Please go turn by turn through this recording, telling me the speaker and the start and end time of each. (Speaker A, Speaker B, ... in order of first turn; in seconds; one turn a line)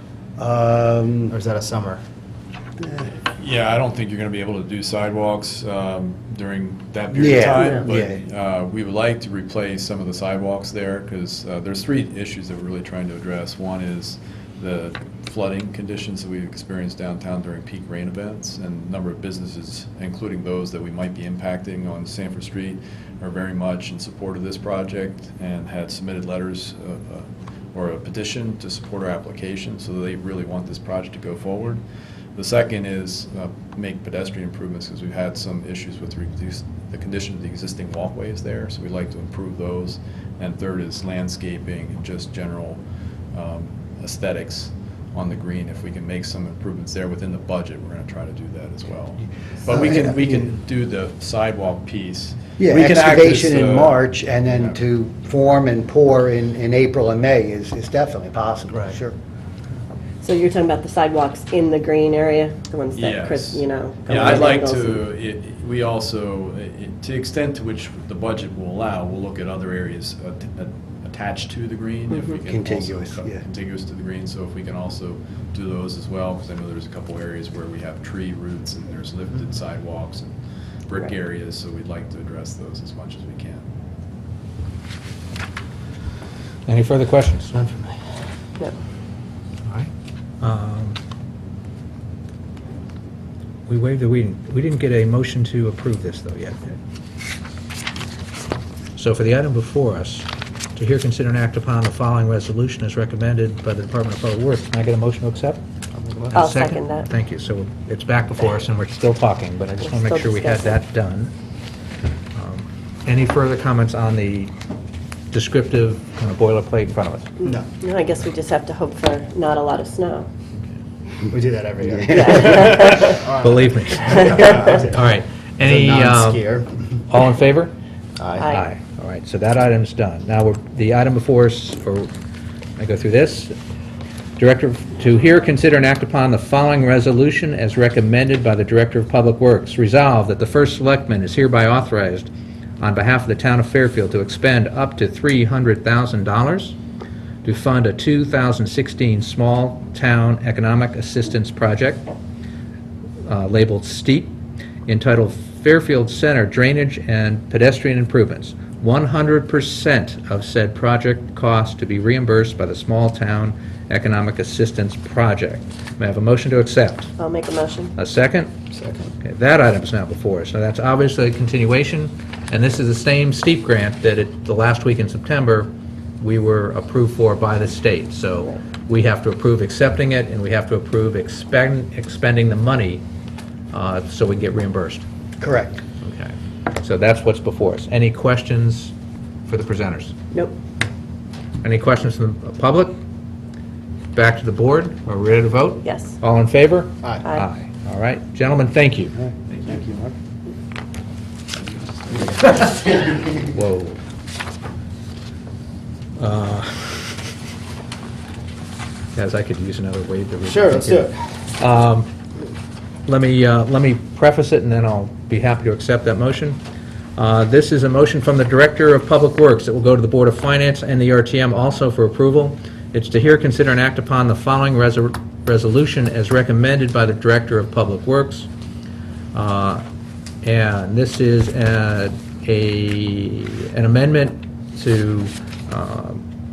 Speaker A: 0.4-1.4
Speaker B: 1.3-2.0
Speaker A: 2.8-3.1
Speaker C: 3.3-31.8
Speaker A: 7.1-8.2
Speaker C: 32.4-42.8
Speaker C: 43.3-54.1
Speaker A: 49.8-50.5
Speaker A: 52.6-59.2
Speaker D: 60.2-65.1
Speaker C: 63.0-80.3
Speaker D: 72.1-72.4
Speaker A: 72.5-73.4
Speaker C: 80.9-83.7
Speaker E: 86.7-87.8
Speaker E: 90.4-91.0
Speaker E: 93.7-96.8
Speaker E: 99.0-105.6
Speaker B: 106.0-106.3
Speaker E: 106.2-111.3
Speaker D: 106.3-107.1
Speaker D: 109.8-110.8
Speaker E: 112.3-114.5
Speaker E: 115.3-117.3
Speaker D: 117.5-120.3
Speaker B: 117.5-117.7
Speaker B: 121.3-125.1
Speaker D: 122.1-123.2
Speaker E: 123.0-126.6
Speaker B: 125.6-126.7
Speaker E: 127.1-127.7
Speaker B: 128.2-128.5
Speaker D: 128.4-128.7
Speaker E: 128.5-132.1
Speaker E: 132.8-133.6
Speaker E: 134.4-146.8
Speaker E: 147.4-152.1
Speaker E: 153.2-154.3
Speaker E: 154.9-167.1
Speaker D: 167.2-168.0
Speaker E: 168.0-168.5
Speaker B: 168.8-169.1
Speaker E: 169.2-183.0
Speaker E: 183.7-185.0
Speaker A: 185.4-185.8
Speaker E: 186.0-188.9
Speaker E: 189.5-190.2
Speaker E: 191.6-193.0
Speaker E: 194.1-199.2
Speaker D: 195.8-196.2
Speaker E: 203.3-204.0
Speaker E: 206.2-207.2
Speaker E: 209.2-212.1
Speaker B: 210.4-211.1
Speaker E: 213.1-216.6
Speaker E: 217.2-228.5
Speaker E: 229.3-229.8
Speaker E: 230.4-236.2